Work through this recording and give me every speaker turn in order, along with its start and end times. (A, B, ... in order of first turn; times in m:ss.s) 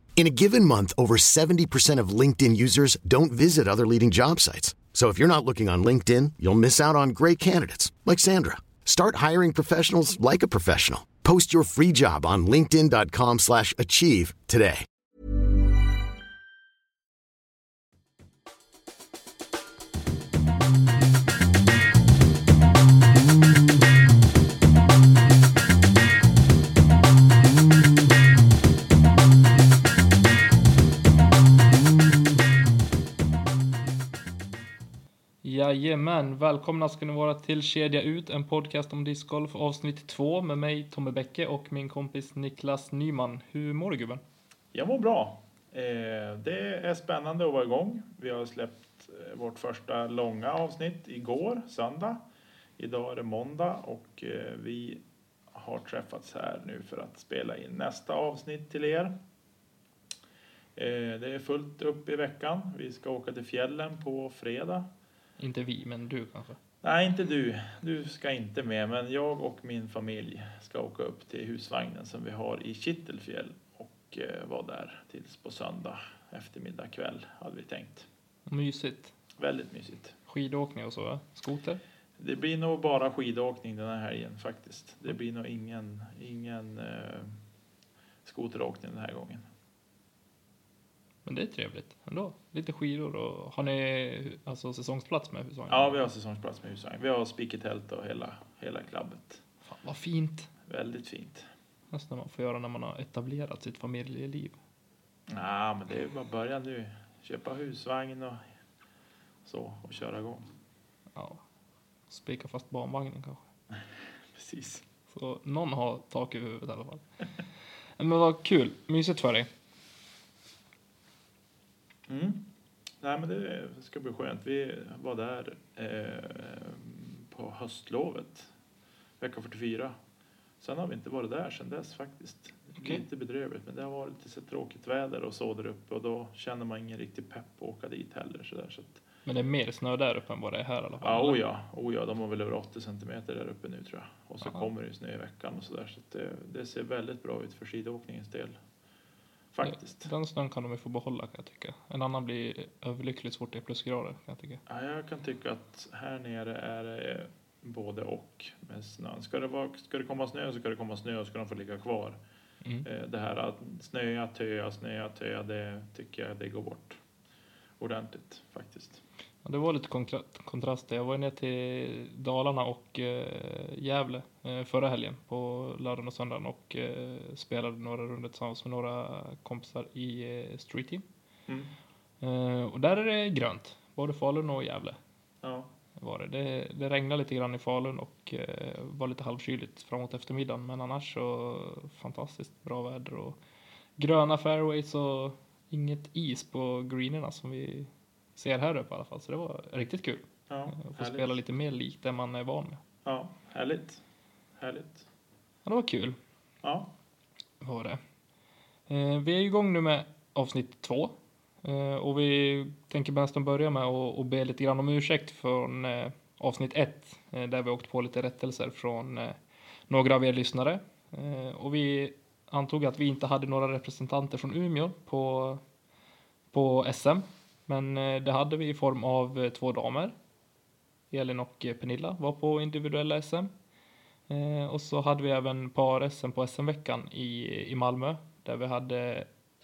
0:00.2-0:14.8 A
0:35.4-0:44.2 B
0:44.7-0:52.2 C
0:52.8-0:55.0 C
0:55.5-0:59.1 C
1:00.8-1:04.8 C
1:05.4-1:06.6 B
1:06.8-1:18.1 C
1:18.5-1:19.1 B
1:19.4-1:20.2 C
1:20.3-1:21.8 B
1:22.2-1:27.4 C
1:28.2-1:29.4 C
1:31.2-1:36.1 B
1:35.7-1:39.4 C
1:39.6-1:40.5 B
1:40.6-1:41.5 C
1:41.9-1:44.6 B
1:45.3-1:48.4 C
1:49.4-1:50.5 C
1:51.1-1:51.4 B
1:52.1-1:53.4 B
1:54.3-1:54.8 C
1:55.1-1:57.0 B
1:58.0-1:59.5 B
2:02.1-2:02.5 C
2:03.0-2:08.5 C
2:09.2-2:10.0 C
2:10.6-2:19.0 C
2:19.2-2:21.4 B
2:21.0-2:28.6 C
2:29.5-2:30.1 C
2:29.6-2:34.6 B
2:34.7-2:42.2 C
2:42.8-2:47.0 C
2:47.8-2:49.0 C
2:49.4-3:01.0 B
3:02.2-3:05.0 B
3:05.4-3:05.7 C
3:06.0-3:13.4 B
3:14.0-3:22.8 B
3:20.5-3:21.4 C
3:23.0-3:24.0 C
3:24.6-3:25.0 C
3:25.6-3:26.2 B
3:26.6-3:26.9 C
3:27.6-3:28.0 B
3:28.9-3:45.6 B
3:46.5-3:50.1 B
3:51.1-3:53.5 B
3:54.3-3:59.3 B